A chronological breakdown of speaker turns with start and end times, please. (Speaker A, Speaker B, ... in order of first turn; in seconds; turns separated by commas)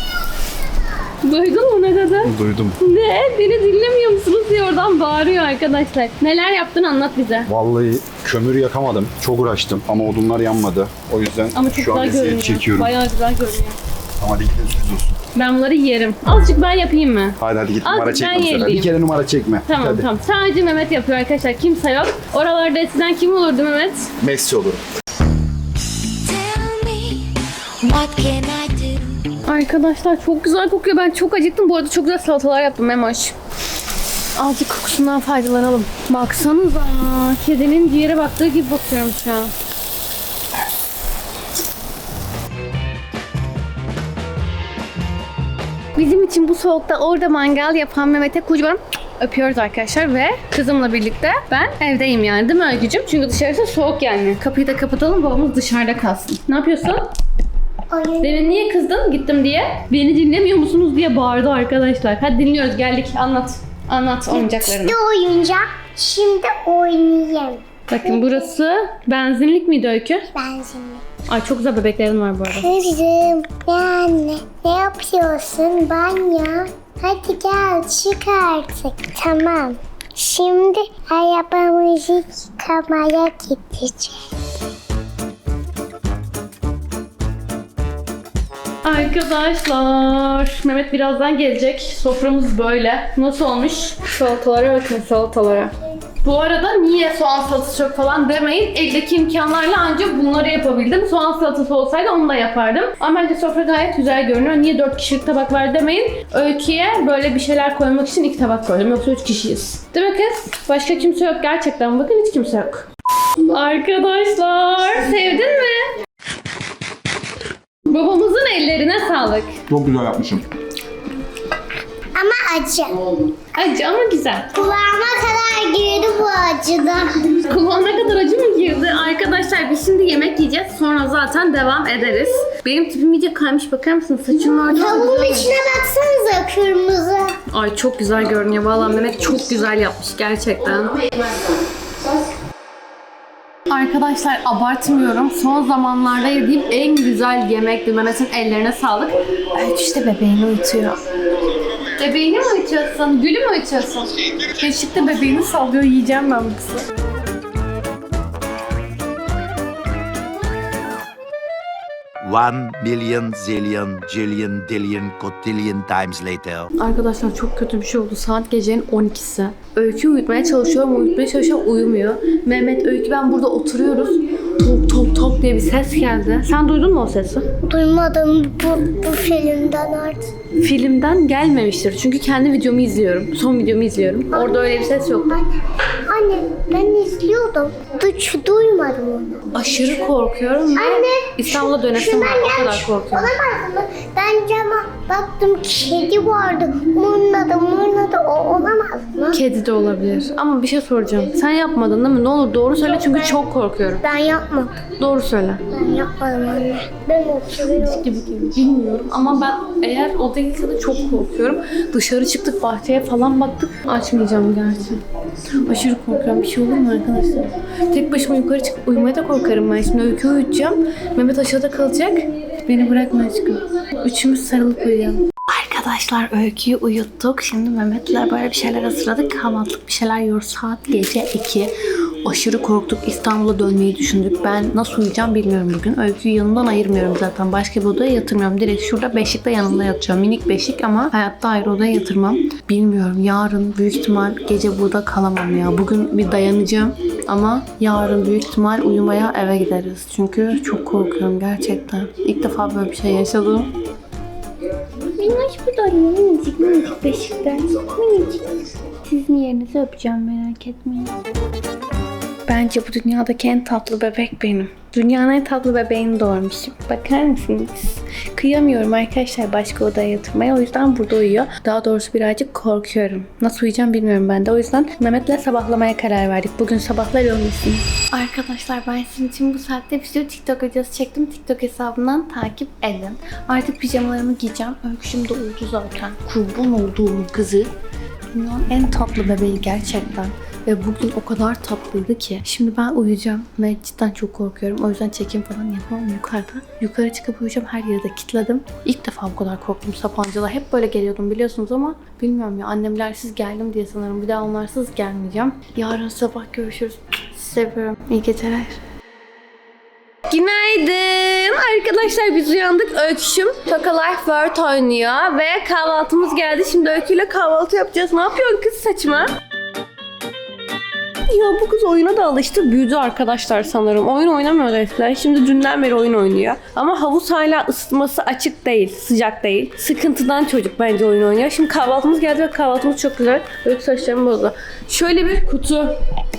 Speaker A: 1.2-7.5, Speaker B: 2.2-2.8, Speaker B: 7.5-12.9, Speaker A: 11.5-13.8, Speaker B: 14.2-15.2, Speaker A: 15.3-18.9, Speaker B: 17.4-20.1, Speaker A: 19.7-24.1, Speaker B: 24.2-24.8, Speaker C: 26.2-29.3, Speaker A: 29.4-33.3, Speaker A: 34.4-39.5, Speaker A: 45.9-57.1, Speaker D: 57.9-58.6, Speaker A: 58.2-65.0, Speaker D: 64.3-68.5, Speaker A: 67.9-70.3, Speaker D: 70.3-71.0, Speaker A: 71.3-72.7, Speaker D: 72.6-84.3, Speaker A: 88.8-112.9, Speaker A: 113.5-115.9, Speaker A: 117.9-119.5, Speaker B: 119.7-120.5, Speaker D: 122.1-123.1, Speaker A: 123.5-124.5, Speaker D: 124.5-127.3, Speaker A: 127.5-135.5, Speaker D: 134.7-137.4, Speaker A: 137.5-141.0, Speaker A: 143.7-151.0, Speaker A: 152.0-156.8, Speaker E: 162.2-166.7, Speaker A: 166.8-177.5, Speaker D: 177.6-180.3, Speaker A: 180.6-185.4, Speaker D: 184.3-185.5, Speaker D: 186.1-189.5, Speaker A: 189.5-193.3, Speaker D: 190.7-199.4, Speaker A: 199.3-204.0, Speaker D: 204.0-204.8, Speaker A: 205.0-205.6, Speaker D: 205.7-208.0, Speaker A: 207.8-215.0, Speaker A: 215.6-231.7, Speaker A: 232.2-253.7, Speaker A: 255.2-261.1, Speaker A: 262.5-287.7, Speaker A: 288.3-308.8, Speaker A: 310.3-319.3, Speaker A: 321.3-335.9